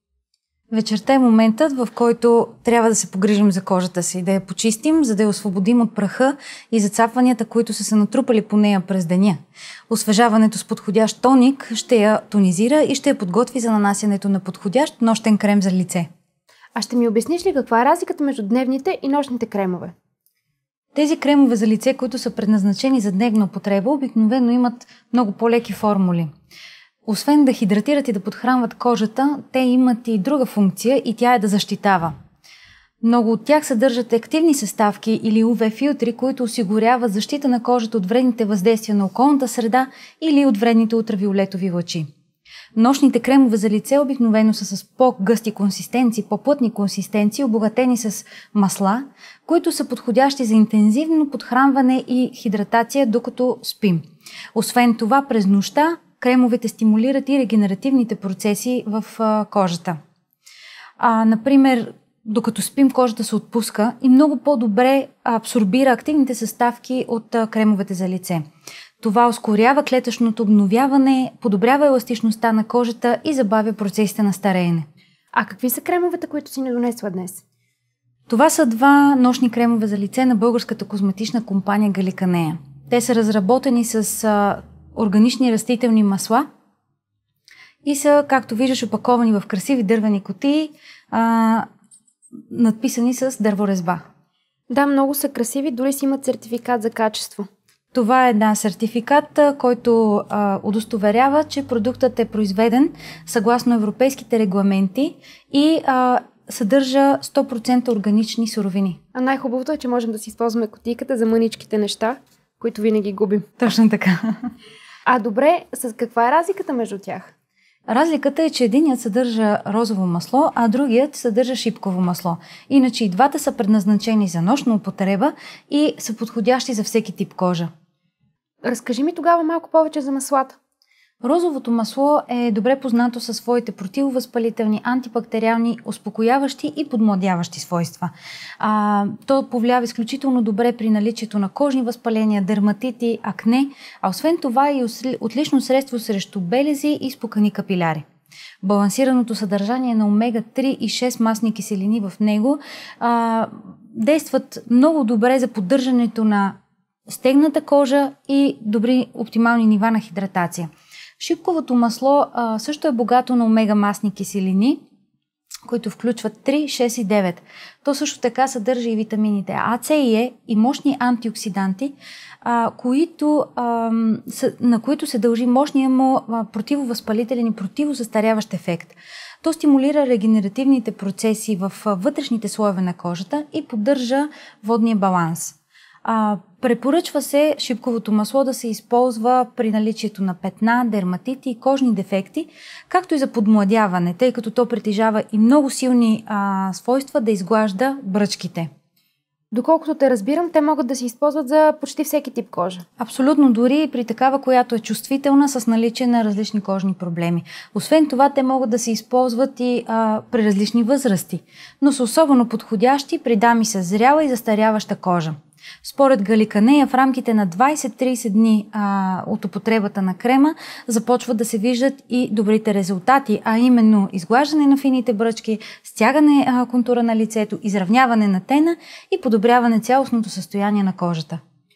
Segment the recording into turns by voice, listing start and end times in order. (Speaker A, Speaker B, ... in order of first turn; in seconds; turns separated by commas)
Speaker A: 0.7-16.1, Speaker B: 16.7-19.9, Speaker A: 20.9-26.3, Speaker A: 27.1-32.1, Speaker A: 33.0-42.1, Speaker A: 42.7-54.0, Speaker A: 54.5-60.0, Speaker A: 61.0-68.4, Speaker A: 69.0-74.9, Speaker B: 75.3-77.4, Speaker A: 78.3-86.5, Speaker A: 87.8-91.7, Speaker A: 92.5-94.0, Speaker B: 94.7-97.5, Speaker A: 97.9-109.0, Speaker B: 109.1-113.5, Speaker A: 113.6-114.2, Speaker B: 115.1-117.3, Speaker A: 117.9-127.7, Speaker B: 128.6-130.6, Speaker A: 131.2-148.1, Speaker A: 148.6-164.8, Speaker A: 165.7-198.7, Speaker B: 199.5-202.8, Speaker A: 203.0-231.4